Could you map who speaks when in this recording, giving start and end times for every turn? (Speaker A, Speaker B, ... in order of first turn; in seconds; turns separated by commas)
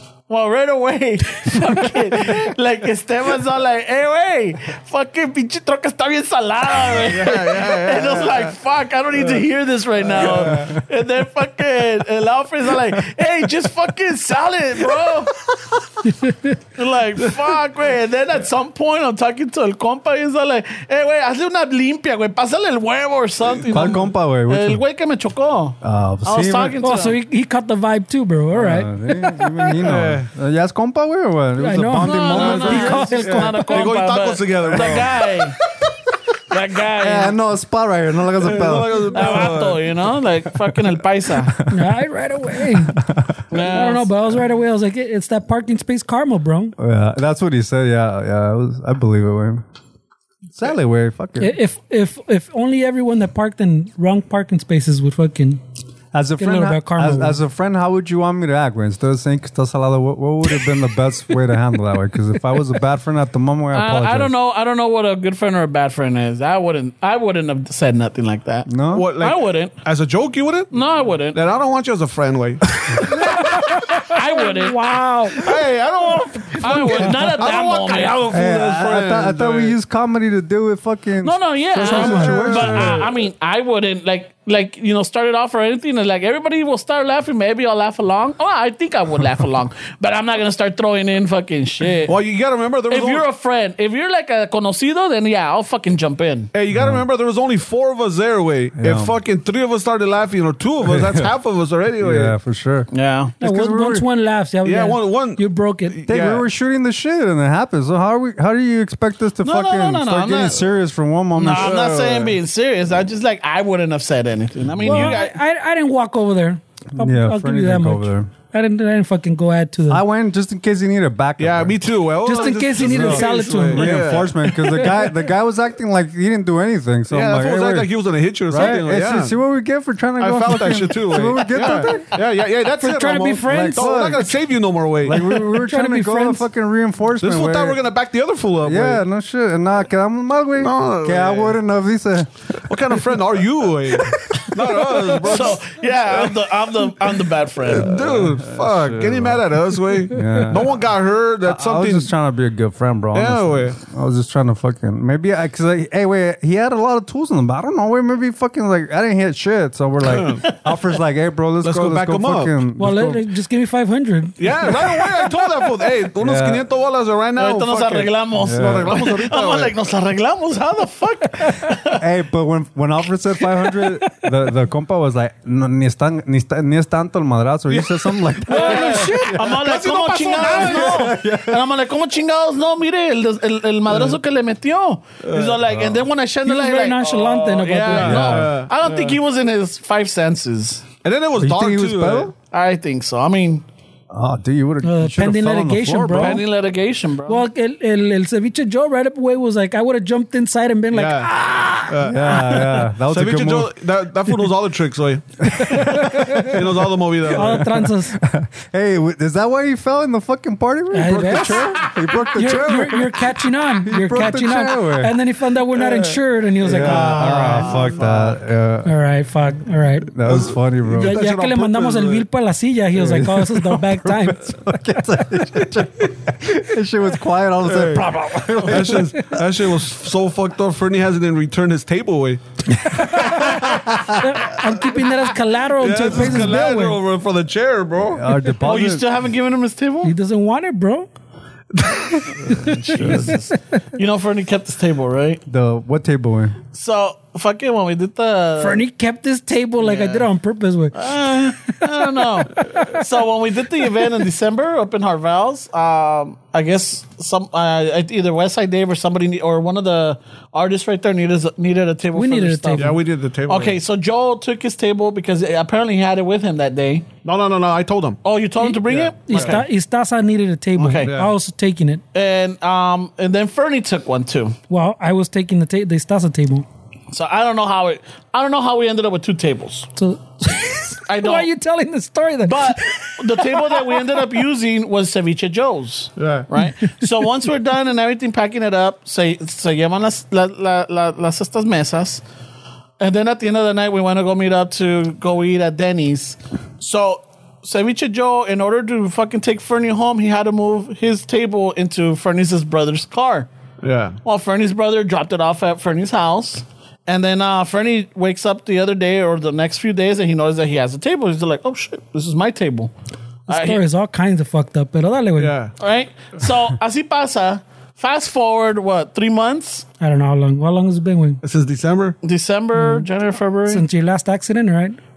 Speaker A: 0.3-15.4, Speaker B: 7.0-8.5, Speaker B: 10.1-10.8, Speaker C: 16.2-16.5, Speaker A: 16.7-27.2, Speaker B: 23.5-23.9, Speaker D: 23.7-24.8, Speaker D: 25.8-26.8, Speaker C: 26.8-29.7, Speaker D: 28.5-33.1, Speaker B: 29.8-30.3, Speaker C: 31.6-33.9, Speaker A: 32.0-35.6, Speaker B: 32.3-35.5, Speaker D: 34.7-35.1, Speaker A: 36.5-37.4, Speaker D: 37.0-39.5, Speaker B: 38.4-39.9, Speaker A: 39.1-41.5, Speaker D: 41.5-41.8, Speaker C: 41.7-43.0, Speaker D: 43.0-43.4, Speaker A: 43.5-44.1, Speaker C: 43.5-46.7, Speaker D: 46.8-49.6, Speaker D: 50.5-51.6, Speaker C: 51.4-55.6, Speaker D: 56.1-64.3, Speaker C: 56.4-57.4, Speaker A: 63.7-69.8, Speaker D: 68.7-69.1, Speaker B: 68.9-70.7, Speaker A: 70.7-71.4, Speaker B: 71.3-73.6, Speaker C: 73.3-75.5, Speaker A: 74.0-74.8, Speaker B: 75.3-79.7, Speaker A: 76.6-78.2, Speaker D: 78.3-83.1, Speaker A: 81.2-92.2, Speaker C: 81.8-82.4, Speaker B: 81.9-83.1, Speaker B: 92.1-93.2, Speaker A: 92.9-96.5, Speaker B: 96.5-102.3, Speaker D: 96.7-97.0, Speaker D: 98.8-99.2, Speaker D: 100.8-101.3, Speaker D: 102.0-104.0, Speaker A: 102.9-103.3, Speaker C: 103.4-106.0, Speaker B: 104.6-106.4, Speaker D: 106.1-111.7, Speaker A: 109.4-110.6, Speaker A: 111.3-115.3, Speaker B: 111.5-112.4, Speaker C: 114.8-120.0, Speaker D: 116.9-118.3, Speaker D: 119.9-121.8, Speaker B: 121.4-124.3, Speaker C: 122.2-125.1, Speaker D: 122.7-127.9, Speaker B: 127.1-129.3, Speaker D: 128.5-132.0, Speaker B: 130.2-135.4, Speaker C: 132.8-134.1, Speaker D: 133.4-134.3, Speaker D: 135.0-137.8, Speaker C: 135.6-136.4, Speaker B: 137.2-139.0, Speaker D: 138.6-142.3, Speaker B: 140.6-141.6, Speaker B: 142.7-146.9, Speaker A: 145.2-147.9, Speaker B: 147.6-152.1, Speaker D: 147.9-149.5, Speaker D: 150.1-150.8, Speaker D: 151.4-163.2, Speaker B: 153.1-153.8, Speaker B: 160.0-160.4, Speaker B: 161.6-162.6, Speaker C: 162.8-164.9, Speaker B: 164.4-169.7, Speaker D: 166.2-166.6, Speaker A: 167.3-172.0, Speaker D: 168.4-168.9, Speaker D: 172.0-179.6, Speaker A: 178.5-190.8, Speaker C: 178.5-179.4, Speaker B: 178.5-181.1, Speaker D: 180.4-181.6, Speaker B: 183.9-184.2, Speaker B: 185.2-186.0, Speaker C: 186.4-188.4, Speaker B: 187.2-189.2, Speaker D: 188.0-188.6, Speaker B: 191.0-192.3, Speaker D: 191.4-192.3, Speaker A: 192.5-193.6, Speaker D: 194.1-196.4, Speaker C: 194.8-196.4, Speaker A: 196.1-197.4, Speaker C: 197.3-201.9, Speaker B: 200.9-201.3, Speaker B: 201.8-207.6, Speaker D: 202.0-203.7, Speaker D: 205.5-206.5, Speaker C: 205.6-206.5, Speaker D: 207.3-215.2, Speaker C: 207.3-208.2, Speaker C: 210.9-211.8, Speaker C: 212.3-217.8, Speaker B: 215.8-218.4, Speaker D: 216.6-218.9, Speaker C: 218.8-220.1, Speaker D: 220.0-221.2, Speaker B: 220.2-222.2, Speaker C: 221.0-224.5, Speaker D: 222.9-229.2, Speaker B: 227.6-228.0, Speaker B: 228.6-232.4, Speaker B: 233.0-233.9, Speaker C: 233.1-237.0, Speaker D: 233.1-234.2, Speaker B: 235.8-238.3, Speaker D: 238.1-239.0, Speaker A: 238.6-240.1, Speaker C: 240.0-241.1, Speaker B: 241.7-242.4, Speaker D: 242.4-243.3, Speaker A: 242.4-245.4, Speaker C: 243.1-243.3, Speaker D: 245.5-246.6, Speaker A: 246.7-248.8, Speaker C: 248.6-251.1, Speaker A: 249.8-250.3, Speaker A: 250.9-267.1, Speaker C: 251.7-253.0, Speaker C: 262.1-263.0, Speaker B: 262.8-263.8, Speaker B: 267.2-268.2, Speaker A: 268.2-269.6, Speaker C: 268.6-272.0, Speaker B: 268.9-269.6, Speaker A: 270.8-271.2, Speaker B: 271.0-271.3, Speaker A: 272.1-274.6, Speaker C: 274.7-276.6, Speaker A: 277.1-279.9, Speaker C: 279.9-283.9, Speaker A: 281.1-281.5, Speaker A: 282.4-292.2, Speaker B: 286.2-286.5, Speaker A: 293.0-303.5, Speaker B: 303.8-304.2, Speaker A: 304.2-312.9, Speaker C: 313.5-315.5, Speaker A: 313.5-313.8, Speaker B: 315.4-315.7, Speaker A: 315.8-319.9, Speaker C: 320.0-321.4, Speaker B: 321.4-322.2, Speaker A: 322.2-323.8, Speaker C: 322.8-323.1, Speaker C: 323.7-325.0